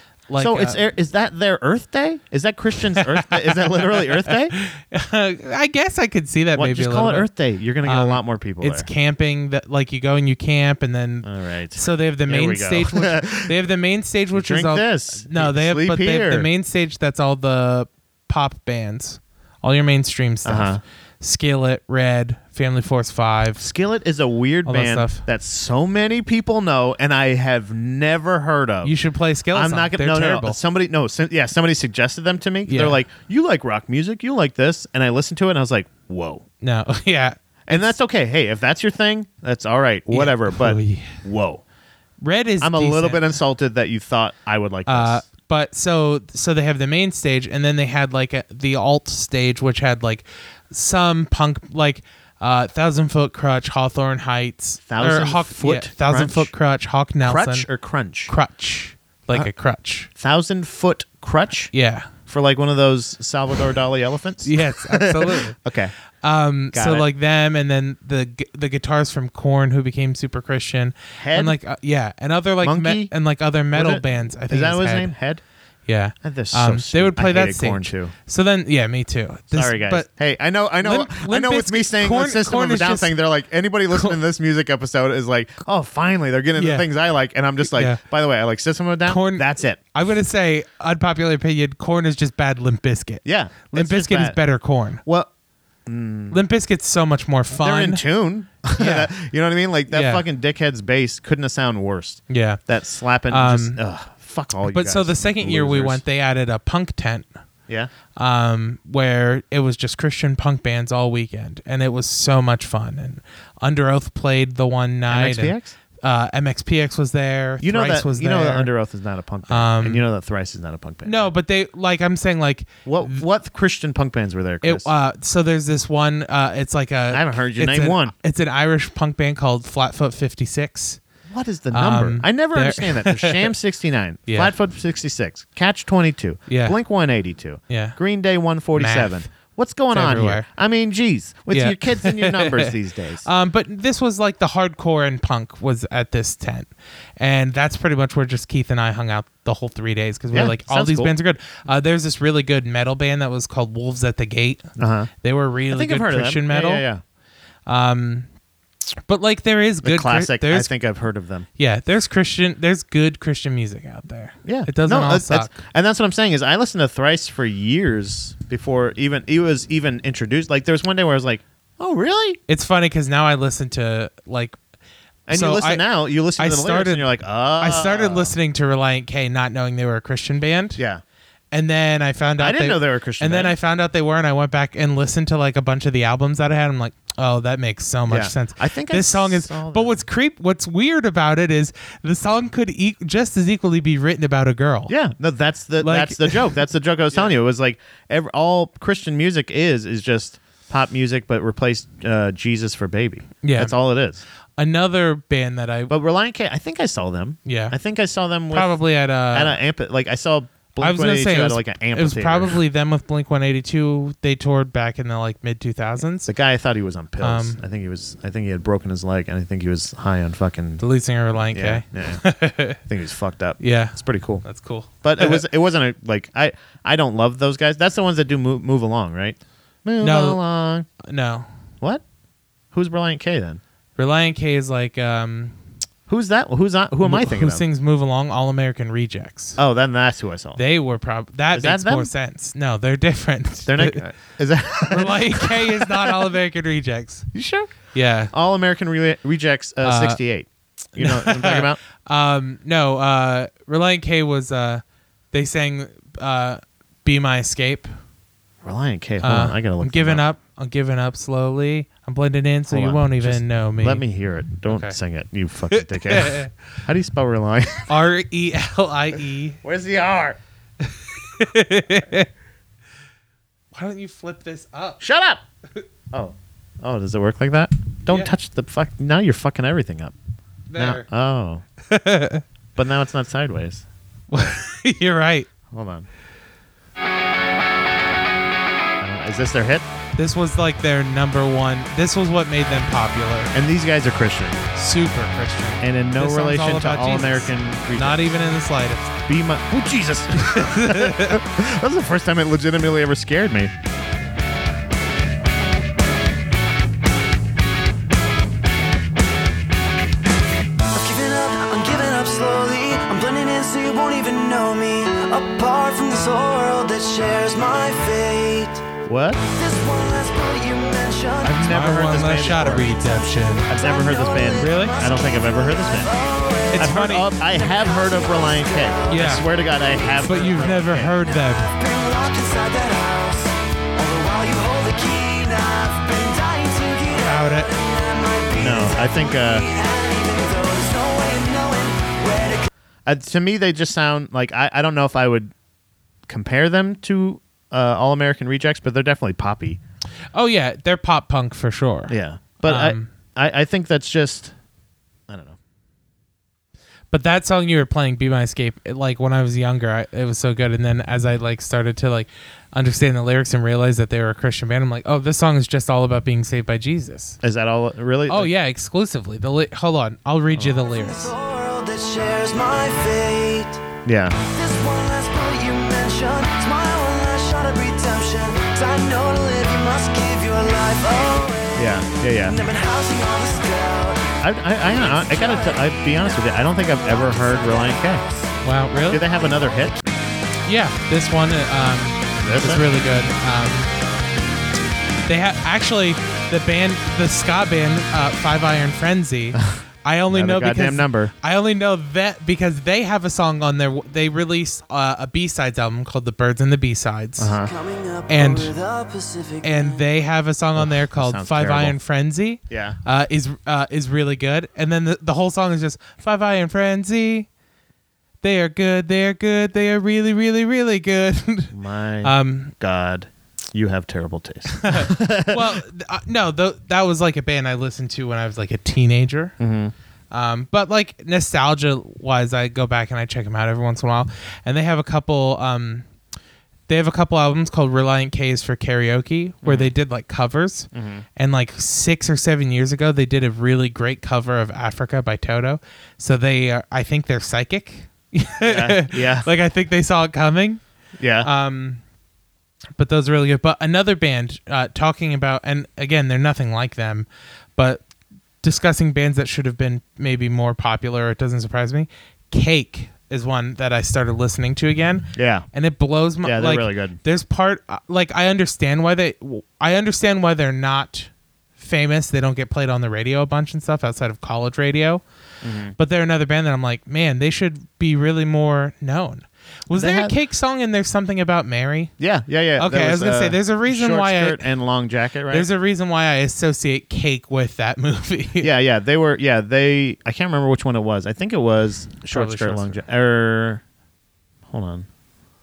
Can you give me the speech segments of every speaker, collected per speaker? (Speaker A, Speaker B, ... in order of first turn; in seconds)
Speaker A: 0.3-0.8, 3.0-7.3, 7.8-23.6, 24.6-25.2, 28.8-30.6, 32.7-33.0, 36.6-37.9, 40.1-41.2, 42.2-43.3, 44.9-57.7, 58.3-60.1, 61.7-62.1, 64.4-65.6, 66.2-75.1, 75.9-80.1, 80.8-83.1, 86.5-86.9, 87.6-88.0, 89.0-95.0, 96.3-98.0, 98.8-99.1, 99.9-100.2, 102.3-102.6, 103.3-103.8, 104.6-107.3, 108.1-118.7, 119.5-120.0, 121.0-123.2, 124.6-131.0, 131.7-133.5, 134.3-134.5, 136.5-136.8, 137.7-138.0, 138.7-139.2, 139.9-140.5, 141.5-156.8, 157.7-158.3, 159.1-160.7, 161.6-165.6, 172.5-174.6, 175.3-175.8, 176.4-177.1, 177.6-180.8, 181.5-194.9, 195.8-196.5, 203.4-203.7, 204.6-205.9, 207.4-207.8, 208.5-209.6, 210.8-216.3, 217.2-217.6, 220.8-222.8, 223.6-225.4, 230.0-230.4, 231.0-231.5, 234.0-235.6, 237.0-239.6, 240.6-244.0, 244.8-247.3, 247.9-248.3, 249.8-250.2, 250.9-257.9, 259.2-264.0, 264.7-264.9, 265.7-266.5, 267.9-269.6, 270.8-272.3, 273.7-275.0, 280.7-281.1, 281.9-282.4, 284.3-285.5, 290.1-293.5, 294.7-299.1, 300.4-301.4, 321.4-323.7, 324.6-324.9, 326.7-327.3, 329.1-329.4, 330.2-331.7, 337.1-337.7, 350.3-353.1, 357.1-367.4, 368.3-371.3, 388.6-389.2, 390.6-393.9, 395.2-407.6, 408.3-408.7, 409.6-417.5, 418.4-422.7, 424.7-429.6, 430.3-436.1, 436.9-450.8, 451.4-452.0, 453.0-458.0, 458.6-475.2, 476.0-482.1, 482.8-484.6, 485.5-488.7, 492.3-493.0
Speaker B: 0.4-4.5, 6.5-8.9, 11.2-13.5, 14.3-16.5, 20.4-20.8, 23.6-28.9, 29.5-36.4, 37.7-41.6, 42.6-45.2, 54.9-56.5, 57.2-58.3, 60.1-61.7, 62.2-65.9, 66.7-67.1, 71.2-71.6, 72.6-73.1, 73.7-75.4, 76.2-78.1, 79.5-89.8, 93.2-94.4, 95.0-95.3, 95.8-96.4, 97.6-106.0, 115.1-115.7, 117.6-121.3, 122.8-124.9, 127.1-128.1, 131.3-143.2, 150.3-151.1, 154.8-155.1, 155.7-157.0, 159.8-161.5, 164.4-172.4, 175.3-178.3, 180.8-181.0, 182.4-183.6, 188.1-189.9, 194.9-204.2, 205.9-208.8, 209.3-212.6, 216.2-220.8, 221.5-222.2, 222.8-224.4, 225.0-230.9, 232.7-233.6, 236.1-237.6, 239.6-240.6, 241.5-242.1, 243.7-246.3, 247.3-247.7, 248.3-251.8, 258.6-260.2, 262.7-267.9, 269.6-270.4, 275.0-275.4, 276.1-280.1, 280.8-281.6, 282.8-283.8, 285.7-286.1, 289.0-289.9, 293.5-294.6, 295.8-298.2, 299.2-303.7, 319.1-319.4, 321.5-322.9, 323.7-326.1, 326.8-331.1, 338.6-339.6, 343.1-345.5, 346.3-349.8, 352.1-354.5, 355.3-355.6, 367.4-368.5, 374.0-374.4, 381.7-382.6, 384.4-388.2, 389.1-390.0, 392.4-392.9, 399.5-401.3, 407.4-407.7, 410.8-412.0, 412.7-413.0, 421.7-425.8, 429.6-429.9, 439.6-439.9, 440.9-441.2, 448.6-449.5, 451.2-451.5, 465.3-465.6, 466.4-467.2, 475.6-475.9, 479.9-480.3, 482.2-485.7, 488.6-493.8, 494.7-495.1
Speaker C: 310.9-318.9, 319.4-321.8, 322.5-342.7, 370.8-373.8, 374.4-386.4, 387.0-388.3, 407.6-410.0